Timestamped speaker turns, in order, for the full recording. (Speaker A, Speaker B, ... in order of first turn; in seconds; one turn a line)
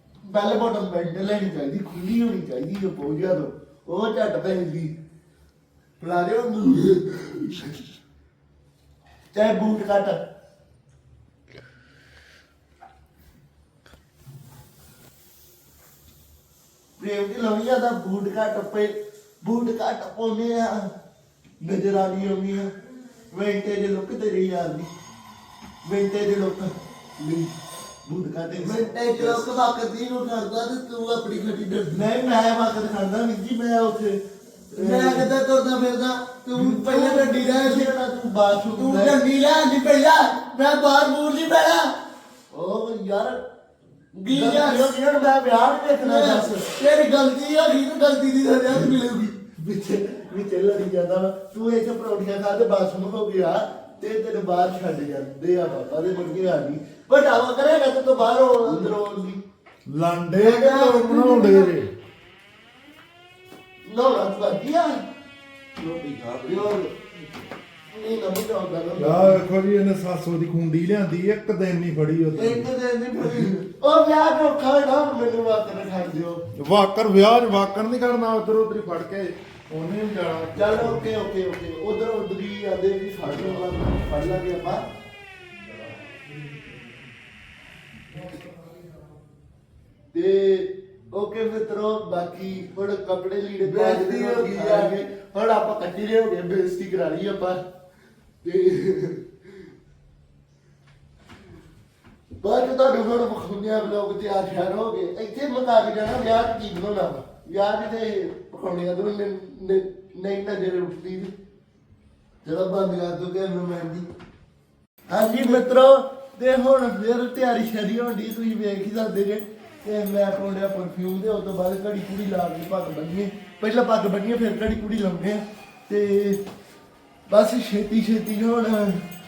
Speaker A: 0.2-4.9
Speaker A: 6.0-7.7
Speaker A: 9.3-10.2
Speaker A: 17.0-20.9
Speaker A: 21.6-22.7
Speaker A: 23.3-24.9
Speaker A: 25.8-27.5
Speaker A: 28.1-34.2
Speaker B: 28.1-31.9
Speaker B: 34.7-38.0
Speaker A: 34.7-35.3
Speaker A: 36.5-39.2
Speaker B: 38.7-41.9
Speaker A: 42.5-43.4
Speaker B: 44.1-49.3
Speaker A: 44.3-59.4
Speaker C: 59.9-61.9
Speaker A: 60.3-61.7
Speaker B: 60.5-61.6
Speaker A: 63.8-65.0
Speaker B: 65.8-66.7
Speaker A: 66.4-66.9
Speaker A: 67.9-69.4
Speaker C: 69.0-72.7
Speaker A: 72.3-76.4
Speaker C: 73.2-73.5
Speaker C: 76.5-81.1
Speaker A: 80.5-84.8
Speaker A: 90.1-97.6
Speaker B: 93.5-95.0
Speaker A: 98.4-99.2
Speaker A: 102.4-111.3
Speaker A: 112.4-114.0
Speaker A: 115.1-126.4
Speaker B: 115.1-115.8
Speaker A: 127.3-129.1